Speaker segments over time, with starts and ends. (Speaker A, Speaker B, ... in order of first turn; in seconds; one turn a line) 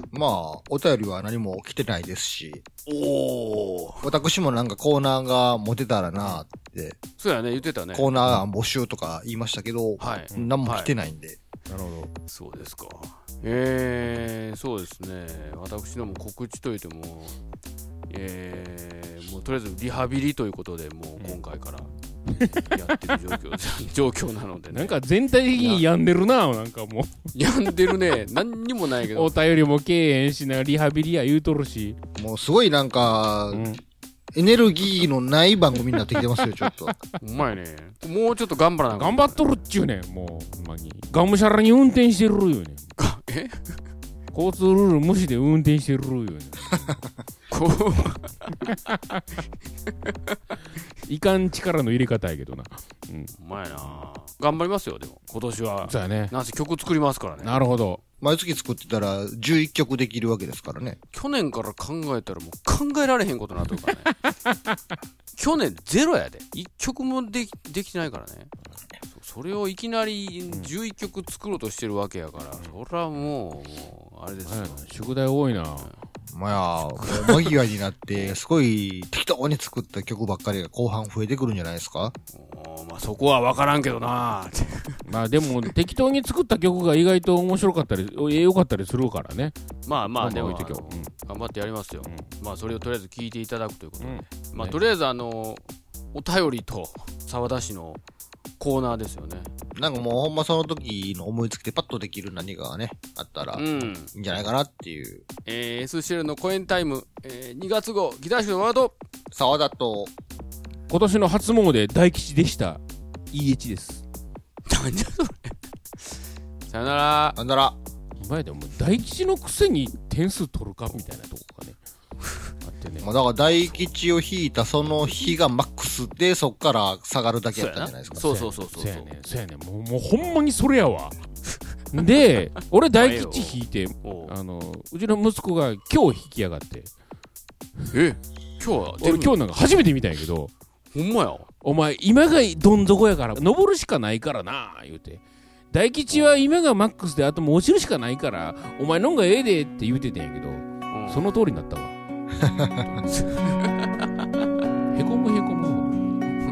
Speaker A: 0.1-2.6
Speaker B: 2.9-4.1
Speaker A: 4.0-7.0
Speaker B: 7.2-8.2
Speaker A: 7.9-11.4
Speaker B: 10.0-10.9
Speaker C: 11.7-12.1
Speaker B: 12.3-17.4
Speaker B: 18.1-25.0
Speaker C: 22.3-23.2
Speaker C: 24.7-27.3
Speaker B: 25.5-25.8
Speaker B: 27.4-29.3
Speaker C: 29.1-32.0
Speaker A: 32.2-33.7
Speaker C: 33.5-33.8
Speaker A: 34.3-37.0
Speaker B: 37.2-39.5
Speaker C: 39.0-42.9
Speaker B: 43.0-43.8
Speaker C: 44.3-47.0
Speaker B: 47.5-48.6
Speaker C: 48.7-49.2
Speaker B: 50.1-50.4
Speaker C: 51.1-53.3
Speaker B: 53.4-57.8
Speaker C: 55.9-56.3
Speaker C: 57.4-58.0
Speaker A: 58.2-61.0
Speaker B: 61.1-64.2
Speaker C: 64.5-64.8
Speaker B: 65.4-68.5
Speaker B: 69.1-74.8
Speaker C: 74.5-75.9
Speaker A: 76.3-82.2
Speaker B: 77.1-77.5
Speaker B: 82.3-85.0
Speaker C: 85.0-89.6
Speaker B: 89.9-95.6
Speaker C: 90.2-91.1
Speaker C: 94.0-94.8
Speaker B: 96.1-98.0
Speaker B: 98.6-99.5
Speaker A: 99.8-105.2
Speaker B: 103.5-104.1
Speaker B: 105.5-109.0
Speaker A: 109.3-110.1
Speaker C: 110.9-112.8
Speaker C: 113.3-114.0
Speaker B: 114.7-116.2
Speaker B: 116.7-117.4
Speaker A: 117.4-117.8
Speaker C: 118.2-121.8
Speaker C: 122.6-123.2
Speaker A: 123.0-128.2
Speaker B: 127.5-129.1
Speaker C: 128.2-131.2
Speaker C: 131.9-136.9
Speaker B: 132.9-134.3
Speaker B: 137.9-139.4
Speaker C: 139.0-140.5
Speaker B: 140.9-141.5
Speaker C: 141.6-152.0
Speaker B: 150.9-151.2
Speaker A: 152.4-153.0
Speaker B: 153.1-153.9
Speaker C: 154.9-156.2